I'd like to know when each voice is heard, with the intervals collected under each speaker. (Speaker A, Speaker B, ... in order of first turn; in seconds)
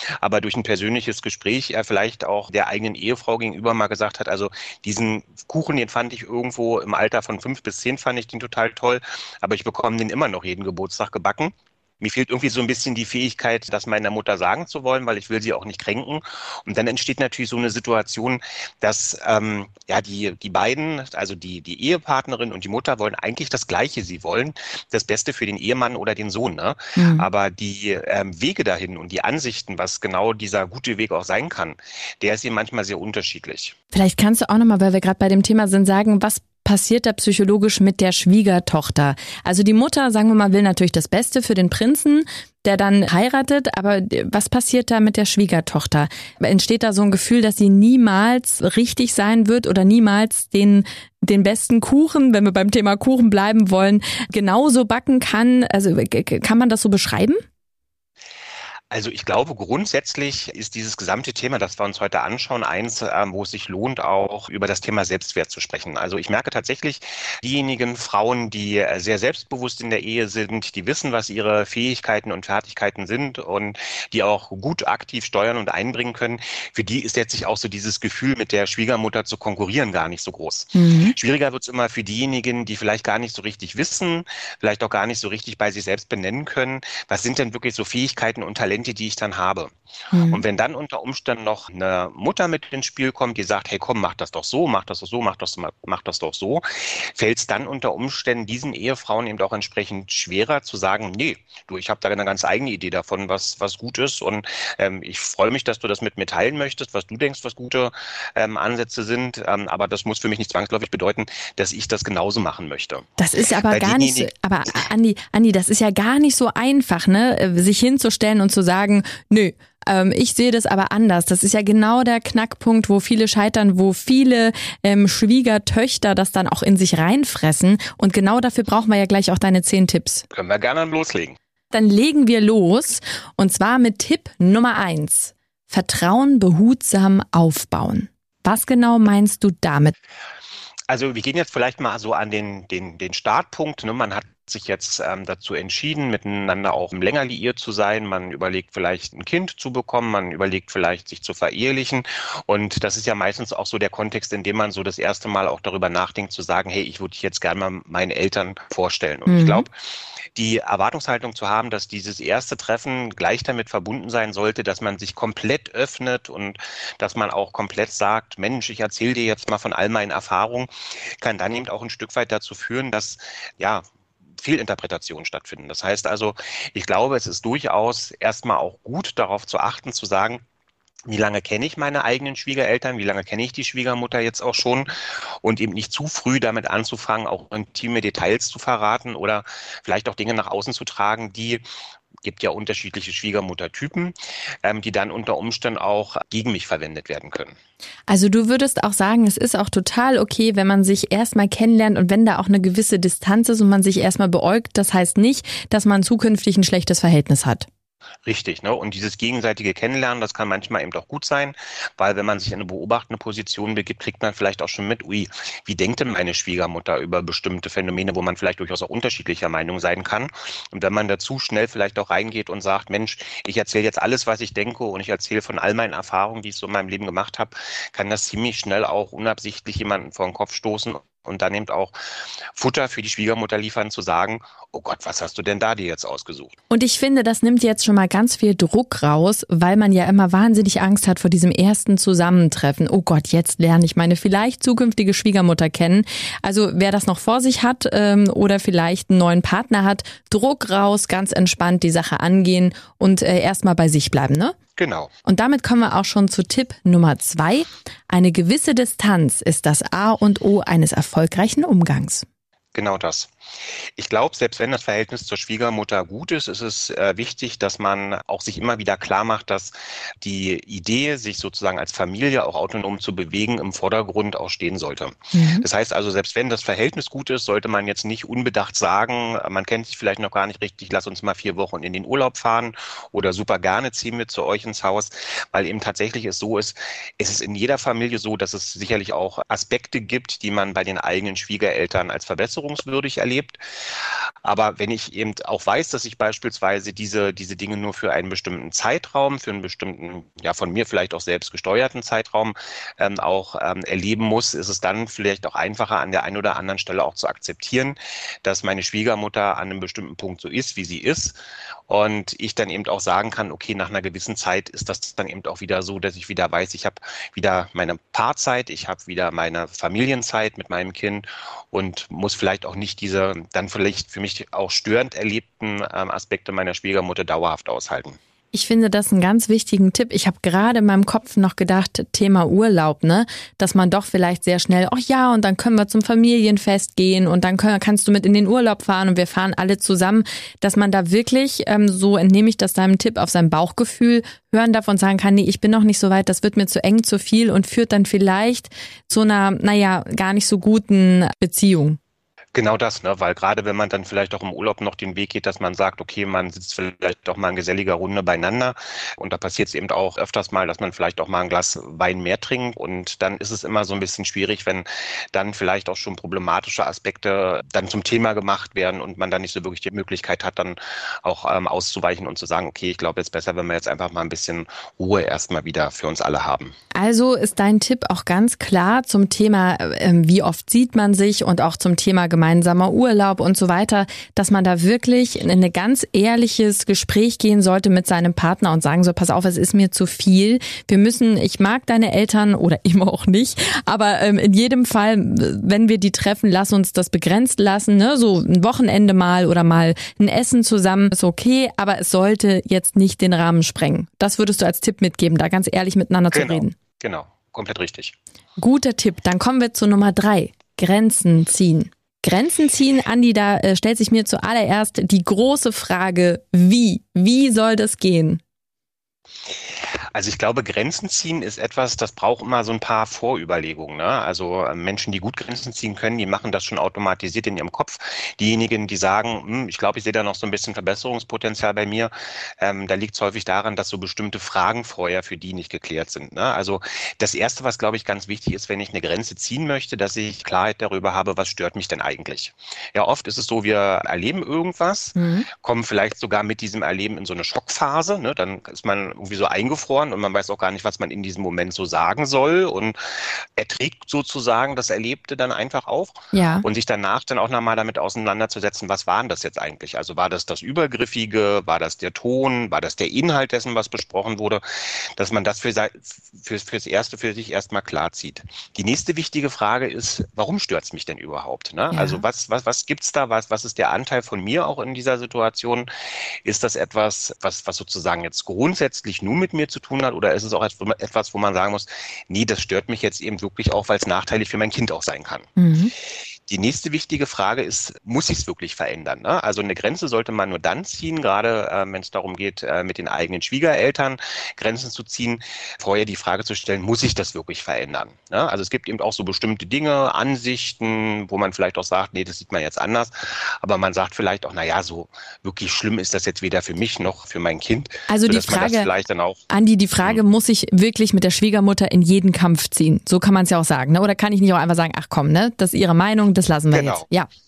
Speaker A: 0.2-33.8, 58.9-89.7, 90.3-113.1, 113.7-114.3, 130.3-131.4, 140.9-159.7, 160.3-173.8, 174.4-180.4, 181.1-191.6, 192.2-197.6, 208.2-231.9, 232.5-236.6, 254.8-255.1, 262.7-263.3, 263.9-311.4, 311.9-328.2, 352.5-376.7, 406.3-408.1, 420.1-475.9, 476.4-485.5, 486.5-509.4, 516.7-517.0
Speaker B: 26.9-27.3, 33.9-57.4, 80.7-81.1, 90.1-90.4, 113.2-130.2, 131.7-139.9, 159.3-159.7, 198.1-207.7, 236.7-254.5, 255.2-262.2, 275.3-275.6, 328.5-352.0, 376.9-406.8, 408.6-418.4, 445.1-445.5, 456.3-456.6, 471.9-472.2, 485.6-485.9, 508.1-508.9, 509.5-517.3